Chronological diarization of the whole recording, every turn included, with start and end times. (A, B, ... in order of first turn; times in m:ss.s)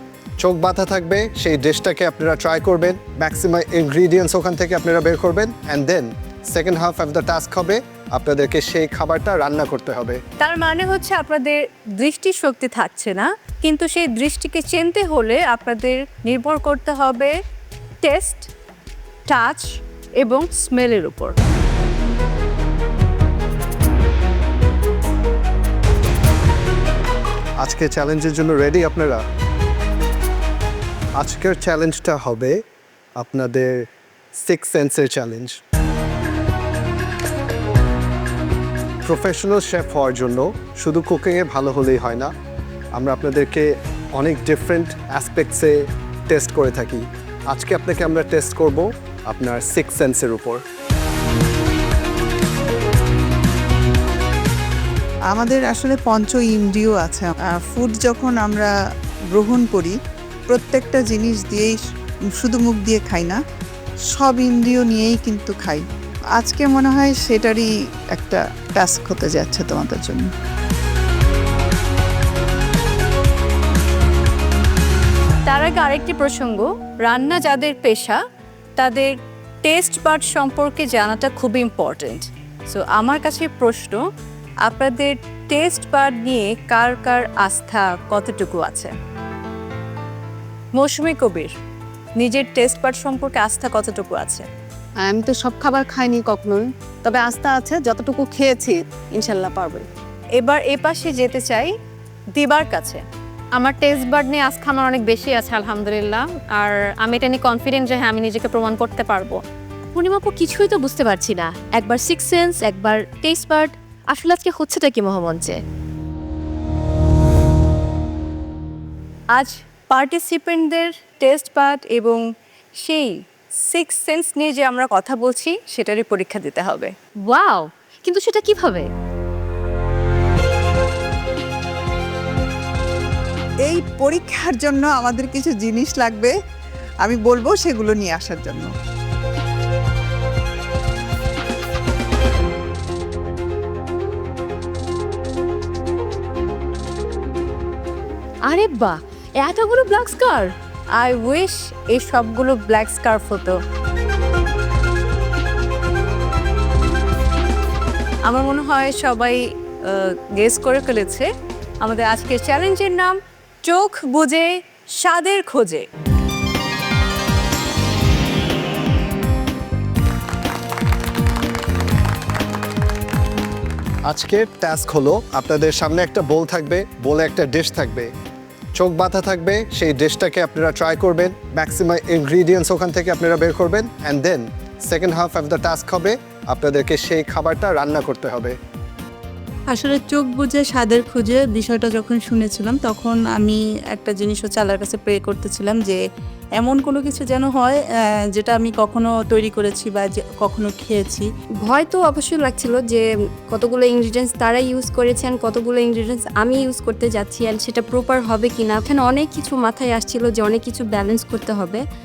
0:00.4-0:10.2 A
0:10.4-0:17.3 B
0:18.0-0:18.5 B
0:19.3-0:21.3 B
0:27.6-0:29.2 A
0:31.2-0:32.6 A
0:33.2-0:35.5 A
0:39.0-0:42.3 A
0:43.0-0:45.8 A
0:46.3-0:50.6 A
0:55.3-0:58.7 C
0:59.3-1:00.0 C
1:00.5-1:01.8 C
1:02.4-1:03.4 C
1:04.1-1:05.8 C
1:06.4-1:10.3 C
1:15.4-1:18.2 B
1:18.8-1:19.1 B
1:19.6-1:24.0 B
1:24.6-1:28.9 B
1:30.8-1:31.5 B
1:32.2-1:34.4 B
1:35.0-1:39.9 D
1:40.4-1:41.7 B
1:42.3-1:43.0 B
1:43.6-1:49.4 E
1:49.9-1:55.6 F
1:59.3-2:02.2 B
2:02.8-2:06.9 B
2:07.3-2:08.9 F
2:13.6-2:16.3 C
2:17.0-2:18.7 C
2:28.5-2:28.8 B
2:29.5-2:30.0 B
2:31.0-2:33.6 B
2:38.2-2:41.3 B
2:41.8-2:45.8 B
2:54.1-2:58.1 A
2:58.8-3:08.6 A
3:09.7-3:16.0 G
3:16.6-3:21.3 G
3:21.6-3:31.8 H